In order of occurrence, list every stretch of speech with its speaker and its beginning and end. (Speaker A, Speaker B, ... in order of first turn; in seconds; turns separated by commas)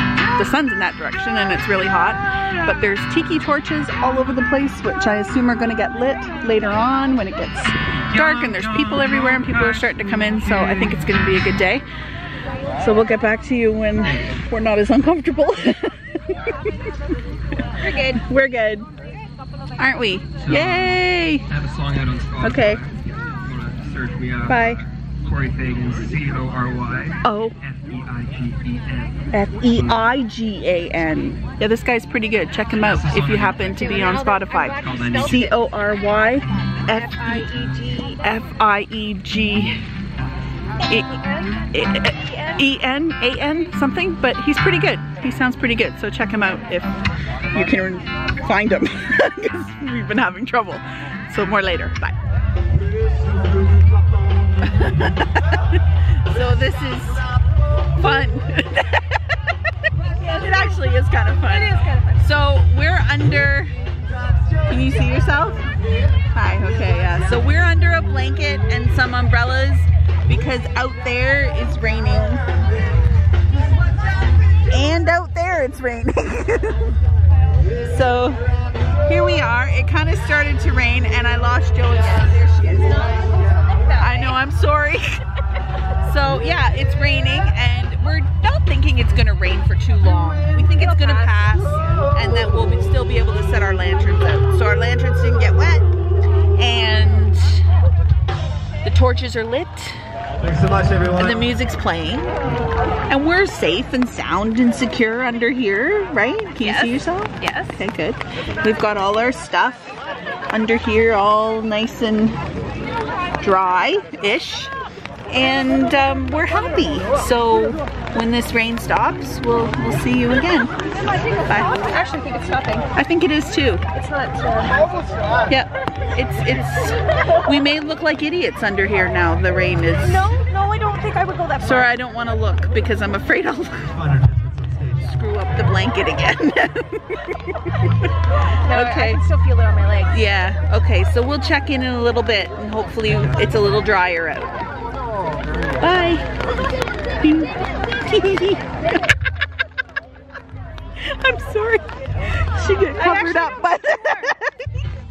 Speaker A: 0.3-11.8, Speaker A: 12.8-16.9, Speaker A: 17.8-18.9, Speaker B: 17.8-18.1, Speaker A: 19.8-21.6, Speaker C: 21.6-24.4, Speaker A: 22.3-22.9, Speaker A: 24.4-24.8, Speaker C: 25.2-27.2, Speaker A: 27.2-27.6, Speaker C: 27.7-29.1, Speaker A: 29.3-39.8, Speaker B: 33.8-35.5, Speaker B: 37.2-38.1, Speaker A: 40.8-47.0, Speaker A: 47.5-52.1, Speaker A: 54.6-57.2, Speaker A: 57.9-59.2, Speaker A: 60.1-63.7, Speaker B: 61.4-62.2, Speaker A: 64.7-65.7, Speaker A: 66.3-72.4, Speaker A: 74.7-77.0, Speaker A: 77.8-78.4, Speaker A: 79.0-83.1, Speaker A: 83.9-85.2, Speaker A: 86.0-95.9, Speaker B: 90.8-91.5, Speaker A: 96.6-97.7, Speaker A: 98.8-100.0, Speaker A: 100.8-102.3, Speaker A: 103.1-110.0, Speaker B: 106.6-107.8, Speaker A: 110.5-112.4, Speaker A: 113.4-114.7, Speaker A: 115.3-120.7, Speaker A: 121.5-121.8, Speaker B: 121.5-122.9, Speaker A: 122.9-123.8, Speaker B: 123.9-124.9, Speaker A: 125.5-130.3, Speaker B: 130.0-131.9, Speaker A: 131.6-134.1, Speaker A: 134.9-138.1, Speaker B: 138.6-140.2, Speaker A: 138.7-139.2, Speaker A: 140.1-144.7, Speaker A: 145.8-146.3, Speaker A: 147.2-148.7, Speaker A: 151.0-154.6, Speaker B: 153.0-153.7